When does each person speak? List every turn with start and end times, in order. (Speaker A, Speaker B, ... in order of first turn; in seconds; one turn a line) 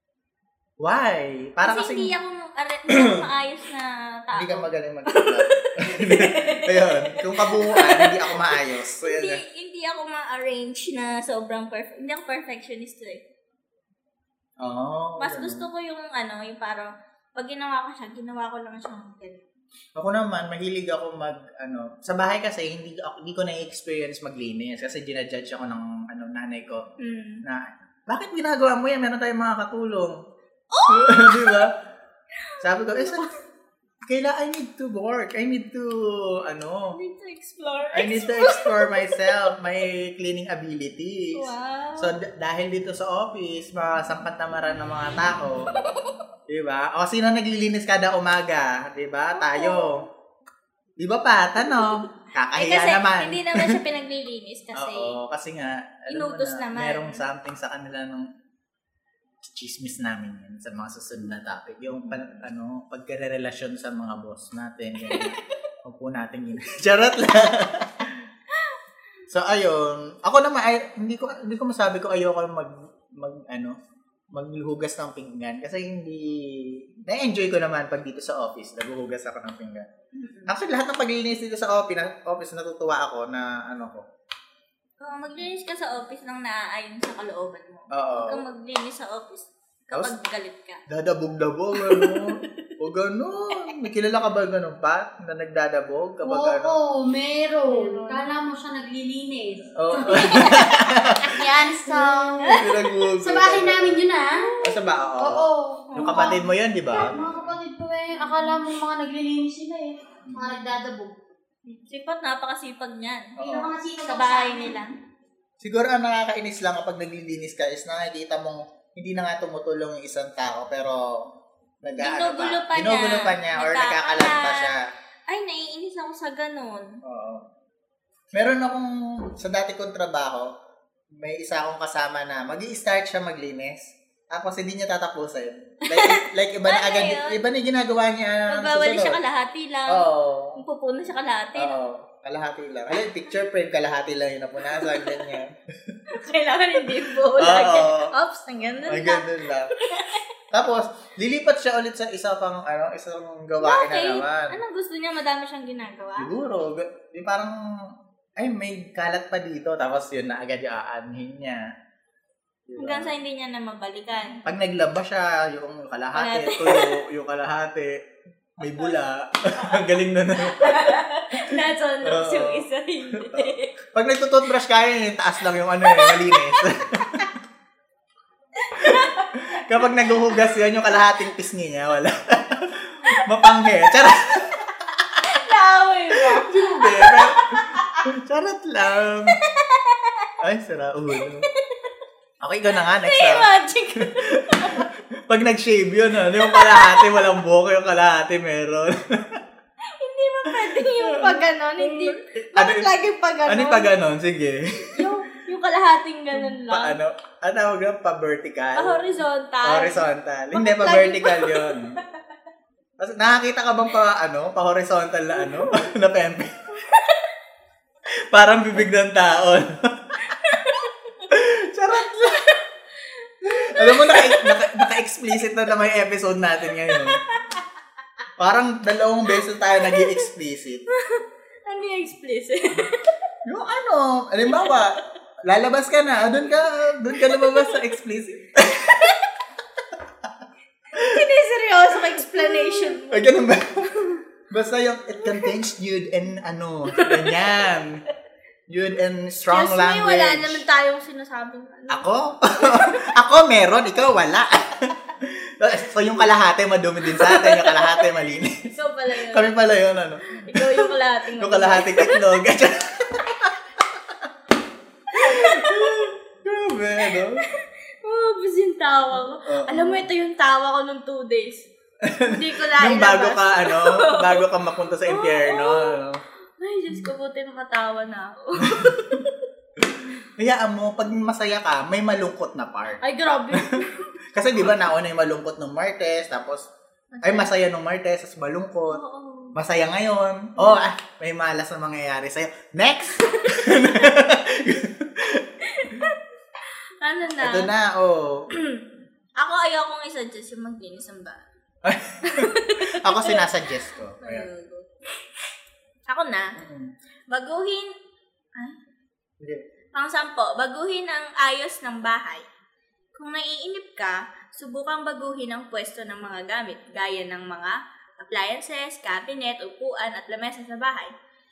Speaker A: 0.8-2.1
Speaker B: 1.6-13.2
Speaker A: 2.9-3.3
Speaker A: 4.3-9.4
Speaker A: 14.6-15.6
Speaker B: 15.2-19.4
Speaker A: 19.9-26.8
Speaker B: 27.0-27.4
Speaker A: 27.4-30.2
Speaker B: 30.7-31.7
Speaker A: 30.9-31.7
Speaker B: 32.4-33.4
Speaker A: 32.6-33.3
Speaker A: 34.0-37.0
Speaker B: 36.9-39.5
Speaker A: 37.9-45.7
Speaker B: 41.3-42.1
Speaker B: 45.8-46.1
Speaker A: 46.5-50.0
Speaker B: 49.3-50.0
Speaker A: 51.0-53.8
Speaker B: 51.6-52.0
Speaker B: 52.5-55.2
Speaker A: 54.7-58.3
Speaker B: 56.1-57.2
Speaker A: 59.4-68.3
Speaker B: 65.1-65.4
Speaker A: 69.3-73.8
Speaker A: 74.3-79.9
Speaker B: 80.1-80.5
Speaker A: 80.5-84.0
Speaker B: 85.0-90.8
Speaker A: 87.9-88.5
Speaker A: 90.9-96.7
Speaker B: 91.7-92.7
Speaker C: 96.2-104.5
Speaker B: 97.7-98.3
Speaker A: 99.8-101.4
Speaker B: 100.1-100.7
Speaker B: 102.4-102.9
Speaker A: 102.5-104.0
Speaker B: 104.3-104.8
Speaker A: 104.6-107.6
Speaker C: 105.2-111.1
Speaker B: 105.9-106.4
Speaker B: 111.7-113.3
Speaker A: 113.4-113.7
Speaker C: 113.4-114.8
Speaker B: 114.0-114.9
Speaker A: 115.6-124.8
Speaker B: 122.0-124.7
Speaker B: 125.3-127.0
Speaker A: 127.0-127.5
Speaker A: 128.3-130.5
Speaker A: 131.1-139.2
Speaker B: 135.9-137.4
Speaker B: 138.5-141.8
Speaker A: 139.9-140.6
Speaker A: 141.6-146.0
Speaker B: 144.6-145.4
Speaker B: 146.1-150.2
Speaker A: 146.8-148.1
Speaker A: 148.8-149.7
Speaker A: 150.5-154.6
Speaker B: 153.6-156.3
Speaker A: 156.2-161.7
Speaker A: 162.7-163.1
Speaker B: 162.8-164.4
Speaker A: 164.4-168.1
Speaker B: 166.1-167.0
Speaker A: 168.6-177.3
Speaker B: 170.4-173.7
Speaker B: 175.8-177.3
Speaker B: 178.6-180.6
Speaker A: 178.8-185.4
Speaker B: 183.1-183.8
Speaker B: 185.2-188.1
Speaker A: 186.1-189.4
Speaker B: 189.2-190.3
Speaker A: 190.4-191.4
Speaker B: 191.2-191.9
Speaker A: 192.4-199.4
Speaker B: 192.7-194.9
Speaker B: 196.4-197.3
Speaker B: 199.9-203.9
Speaker A: 200.5-202.9
Speaker A: 203.4-205.1
Speaker B: 204.9-207.0
Speaker A: 206.3-209.1
Speaker B: 208.7-212.0
Speaker A: 209.6-212.0
Speaker A: 213.0-216.9
Speaker B: 215.3-215.8
Speaker B: 216.8-217.3
Speaker A: 218.3-220.6
Speaker B: 220.2-221.3
Speaker A: 221.3-222.5
Speaker B: 221.9-224.8
Speaker A: 223.4-227.2
Speaker B: 226.7-227.6
Speaker A: 228.4-230.8
Speaker B: 229.4-230.2
Speaker B: 230.9-233.2
Speaker A: 233.4-239.1
Speaker B: 234.4-235.0
Speaker B: 237.2-237.9
Speaker B: 238.8-239.3
Speaker B: 240.9-243.3
Speaker A: 240.9-241.2
Speaker A: 242.0-248.0
Speaker B: 245.2-245.5
Speaker B: 246.9-247.7
Speaker A: 248.7-250.6
Speaker B: 249.5-253.1
Speaker A: 251.9-258.7
Speaker B: 257.0-258.1
Speaker B: 258.7-259.5
Speaker A: 259.3-264.3
Speaker B: 260.4-262.4
Speaker B: 265.1-266.1
Speaker A: 265.1-267.4
Speaker B: 267.0-271.7
Speaker A: 269.4-270.1
Speaker A: 272.0-276.2
Speaker B: 272.2-274.5
Speaker B: 275.0-276.0
Speaker B: 276.6-279.4
Speaker A: 278.6-279.2
Speaker A: 279.8-286.7
Speaker B: 283.0-284.1
Speaker B: 287.1-287.5
Speaker A: 287.2-289.0
Speaker B: 288.9-289.6
Speaker A: 289.5-296.1
Speaker B: 290.6-290.9
Speaker B: 293.3-294.0
Speaker B: 295.6-296.2
Speaker B: 297.0-297.7
Speaker A: 297.4-298.5
Speaker B: 298.5-298.8
Speaker B: 299.4-301.4
Speaker A: 301.8-304.5
Speaker B: 302.2-303.4
Speaker B: 304.2-304.9
Speaker B: 306.1-306.5
Speaker A: 306.6-306.9
Speaker B: 307.3-307.9
Speaker B: 309.9-312.5
Speaker B: 313.1-321.1